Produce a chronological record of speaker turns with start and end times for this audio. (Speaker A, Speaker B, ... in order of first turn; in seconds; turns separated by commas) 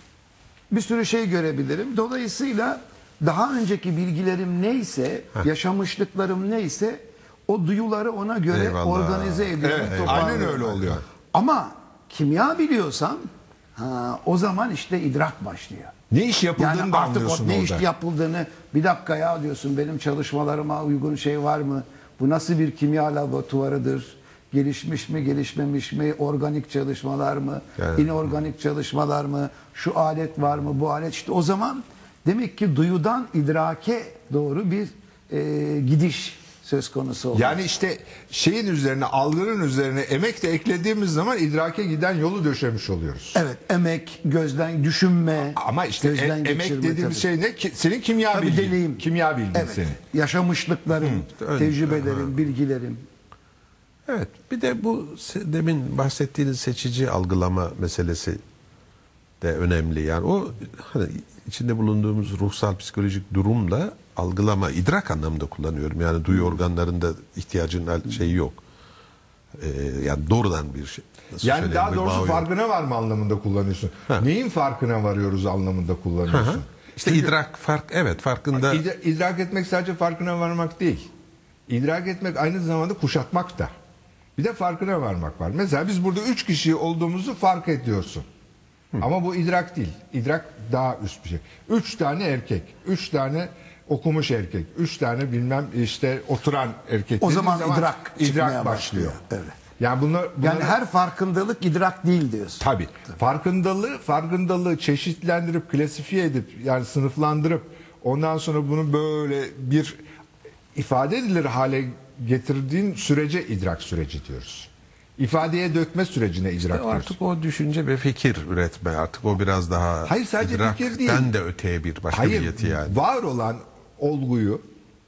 Speaker A: 0.7-15.9, Speaker B: 8.5-11.0, Speaker C: 9.6-11.0, Speaker C: 16.1-17.8, Speaker A: 16.6-37.6, Speaker B: 27.8-28.1, Speaker C: 37.3-43.4, Speaker A: 43.3-47.2, Speaker C: 45.5-50.0, Speaker A: 48.3-53.0, Speaker B: 51.2-52.3, Speaker B: 54.1-58.4, Speaker B: 59.4-68.6, Speaker B: 69.6-72.5, Speaker C: 71.4-77.3, Speaker B: 76.3-78.8, Speaker C: 78.5-81.1, Speaker C: 81.7-83.7, Speaker C: 84.3-88.2, Speaker C: 89.0-99.2, Speaker A: 97.2-99.6, Speaker C: 99.8-100.8, Speaker A: 100.4-102.6, Speaker C: 102.6-110.0, Speaker C: 110.7-117.1, Speaker B: 116.7-123.0, Speaker C: 120.1-121.3, Speaker C: 122.1-124.6